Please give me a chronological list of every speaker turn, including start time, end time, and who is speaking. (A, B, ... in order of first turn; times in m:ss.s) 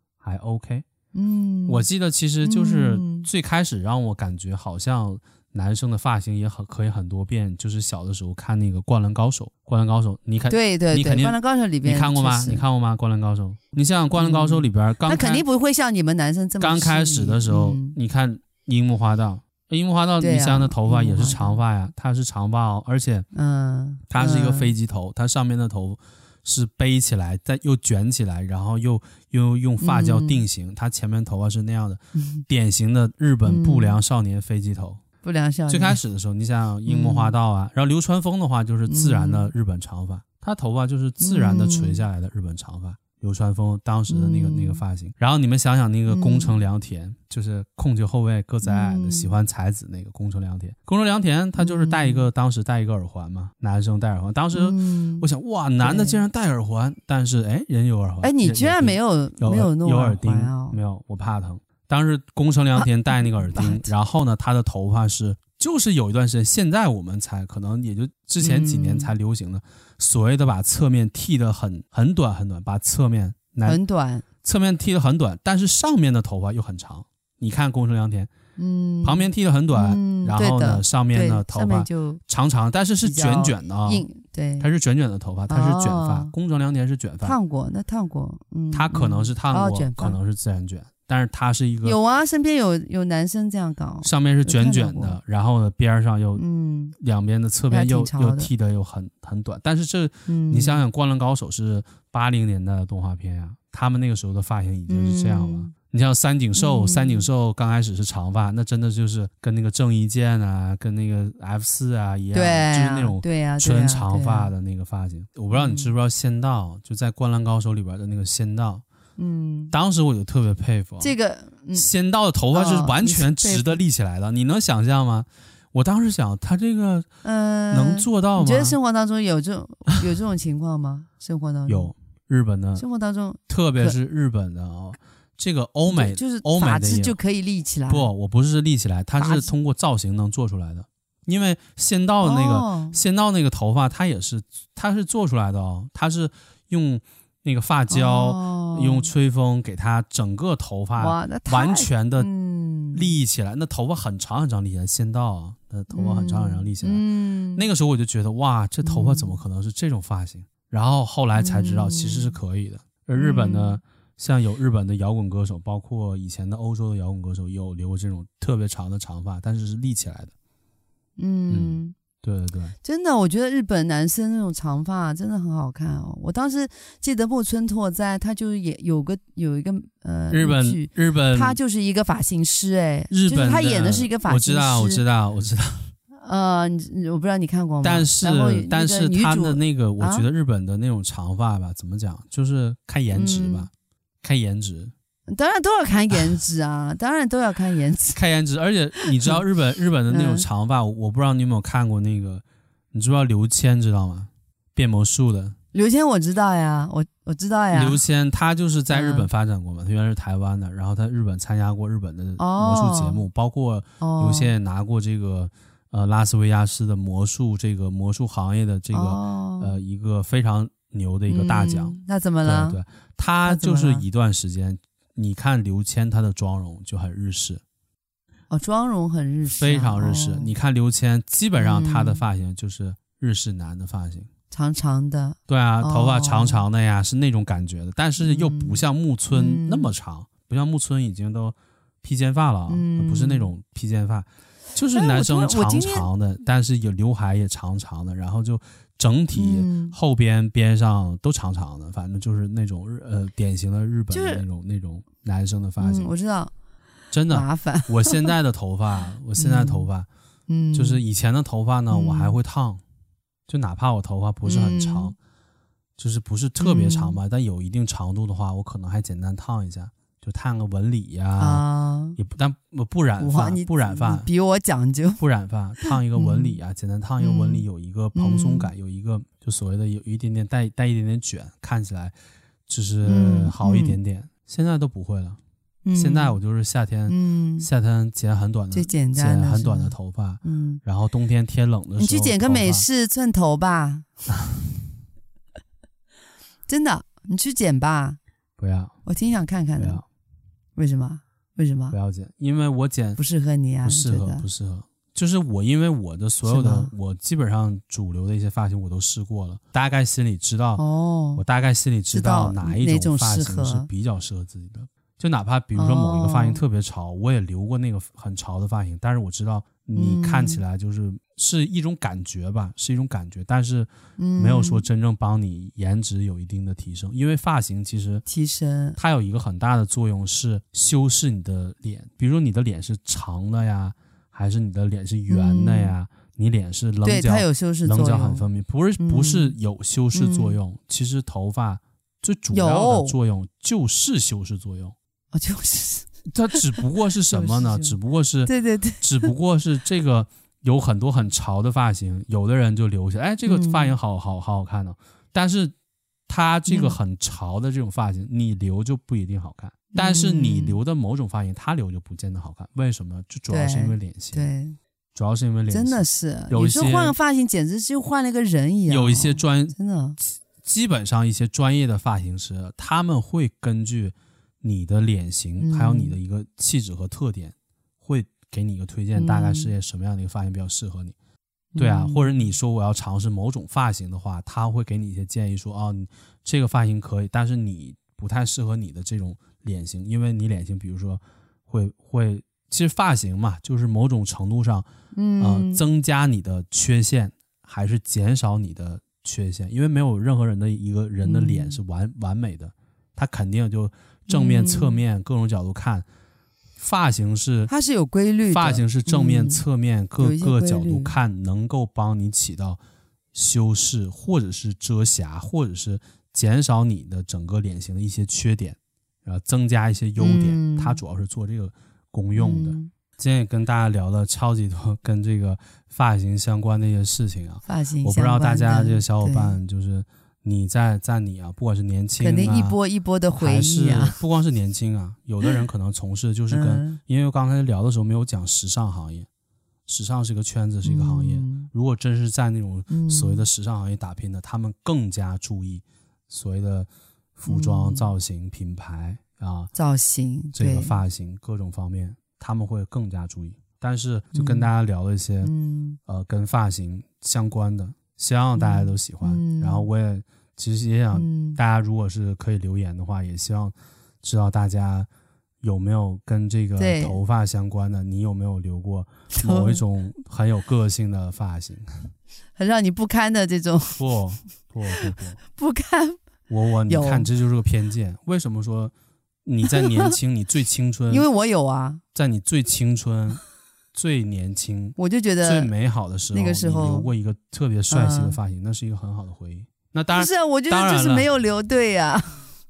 0:00.2-0:00.8 A
0:01.1-0:01.9 B
0:01.7-0:15.4 A
0:02.4-0:03.3 B
0:10.5-0:12.6 B
0:14.1-0:18.0 B
0:16.6-0:23.2 A
0:20.2-0:21.6 B
0:23.3-0:24.7 B
0:24.1-0:35.0 A
0:29.8-0:30.4 B
0:32.2-0:32.4 B
0:33.4-0:34.0 B
0:35.2-0:36.0 B
0:35.7-1:13.8 A
0:36.8-0:37.3 B
0:38.9-0:39.5 B
0:41.2-0:42.0 B
0:44.1-0:44.8 B
0:46.1-0:46.6 B
0:48.6-0:49.3 B
0:51.6-0:52.3 B
0:54.5-0:55.3 B
0:55.8-0:56.2 B
0:58.2-1:00.8 B
1:02.8-1:03.9 B
1:08.4-1:09.1 B
1:13.6-1:14.2 B
1:14.4-1:18.3 A
1:18.6-1:22.2 B
1:19.0-1:24.0 A
1:23.0-1:24.7 B
1:24.6-1:27.4 A
1:25.5-1:26.3 B
1:27.2-1:30.2 B
1:28.7-1:32.0 A
1:31.8-1:35.2 B
1:34.0-1:36.4 A
1:36.4-1:37.0 B
1:37.0-1:58.8 A
1:37.7-1:38.5 B
1:40.3-1:40.8 B
1:44.9-1:45.7 B
1:46.6-1:47.3 B
1:52.3-1:54.5 B
1:55.5-1:55.9 B
1:59.2-1:59.7 B
1:59.7-2:01.1 A
2:01.0-2:01.9 B
2:01.7-2:07.1 A
2:02.5-2:03.8 B
2:07.2-2:11.9 B
2:07.7-2:08.8 A
2:11.7-2:12.8 A
2:12.8-2:14.0 B
2:13.5-2:17.2 A
2:15.9-2:18.1 B
2:17.9-2:32.3 A
2:19.2-2:19.5 B
2:22.2-2:23.0 B
2:27.9-2:29.1 B
2:31.0-2:33.1 B
2:32.9-2:37.0 A
2:35.9-2:37.7 B
2:37.5-2:50.3 A
2:38.8-2:39.4 B
2:41.4-2:42.4 B
2:43.2-2:43.8 B
2:51.2-2:51.9 B
2:51.5-2:52.7 A
2:52.8-3:05.0 B
3:00.3-3:01.6 A
3:03.1-3:05.9 A
3:06.2-3:10.3 B
3:07.8-3:13.7 A
3:13.1-3:13.7 B
3:14.2-3:14.9 A
3:15.3-3:18.2 B
3:18.1-3:25.6 A
3:19.0-3:19.4 B
3:20.1-3:20.4 B
3:25.7-3:28.0 B
3:27.7-3:47.6 A
3:28.9-3:29.3 B
3:32.4-3:33.2 B
3:34.0-3:34.5 B
3:38.9-3:39.8 B
3:41.3-3:42.8 B
3:43.4-3:44.0 B
3:48.5-3:50.5 B
3:49.6-3:54.3 A
3:51.5-3:52.2 B
3:54.5-3:56.6 B
3:55.5-4:16.1 A
3:58.2-3:59.9 B
4:02.7-4:03.5 B
4:04.9-4:06.1 B
4:09.3-4:10.0 B
4:14.1-4:14.4 B
4:15.8-4:16.5 B
4:17.1-4:20.1 A
4:17.3-4:18.3 B
4:19.4-4:19.9 B
4:20.5-4:21.0 B
4:20.7-4:22.8 A
4:21.9-4:22.4 B
4:23.5-4:25.2 A
4:24.4-4:25.1 B
4:26.0-4:31.6 A
4:26.6-4:27.2 B
4:31.4-4:32.2 B
4:32.2-4:34.3 A
4:33.2-4:35.2 B
4:35.2-4:42.1 A
4:35.8-4:36.6 B
4:37.2-4:38.7 B
4:42.7-4:45.4 A
4:43.0-4:44.0 B
4:45.8-4:46.4 B
4:45.9-4:52.8 A
4:47.1-4:47.7 B
4:48.7-4:50.8 B
4:52.0-4:54.1 B
4:56.7-4:58.2 B
4:58.6-4:58.9 A
4:59.0-5:00.0 B
4:59.8-5:00.0 A
5:00.8-5:02.0 B
5:01.9-5:03.2 A
5:03.2-5:04.4 B
5:03.8-5:10.8 A
5:06.4-5:06.9 B
5:10.8-5:11.4 B
5:11.4-5:28.2 A
5:12.1-5:13.9 B
5:15.7-5:16.6 B
5:19.9-5:20.6 B
5:24.2-5:24.8 B
5:28.2-5:29.0 B
5:29.0-5:44.9 A
5:35.3-5:35.9 B
5:37.0-5:38.4 B
5:39.0-5:39.6 B
5:40.1-5:40.6 B
5:42.5-5:43.2 B
5:45.3-5:49.3 B
5:46.3-5:55.7 A
5:53.5-5:54.0 B
5:56.3-6:04.5 A
5:56.7-5:57.0 B
5:59.9-6:00.8 B
6:03.5-6:04.8 B
6:05.1-6:07.2 A
6:05.7-6:10.2 B
6:08.9-6:21.2 A
6:15.6-6:16.2 B
6:19.1-6:19.7 B
6:21.7-6:22.4 B
6:21.8-6:34.9 A
6:35.1-6:35.8 B
6:35.4-6:46.1 A
6:41.2-6:41.8 B
6:44.3-6:45.0 B
6:46.8-6:47.7 A
6:47.7-6:49.6 B
6:48.4-6:52.8 A
6:50.2-6:51.2 B
6:53.3-7:12.8 A
7:00.2-7:01.0 B
7:02.3-7:02.9 B
7:07.6-7:09.6 B
7:12.2-7:14.2 B
7:13.4-7:19.3 A
7:16.5-7:17.0 B
7:19.9-7:29.7 A
7:20.8-7:21.7 B
7:22.9-7:23.4 B
7:27.5-7:28.1 B
7:29.7-7:31.0 B
7:30.5-7:35.5 A
7:34.3-7:34.7 B
7:35.4-7:36.0 B
7:36.1-7:45.1 A
7:38.6-7:39.9 B
7:41.1-7:41.6 B
7:45.6-7:51.9 A
7:46.8-7:47.2 B
7:49.3-7:49.8 B
7:52.6-7:54.0 B
7:54.0-7:55.4 A
7:54.9-7:56.2 B
7:56.5-7:58.9 A
7:56.9-7:57.3 B
7:59.4-8:01.2 A
7:59.6-8:00.2 B
8:01.1-8:02.0 B
8:02.1-8:03.4 A
8:03.9-8:11.3 A
8:05.0-8:05.7 B
8:06.3-8:07.1 B
8:07.9-8:08.4 B
8:10.1-8:12.4 B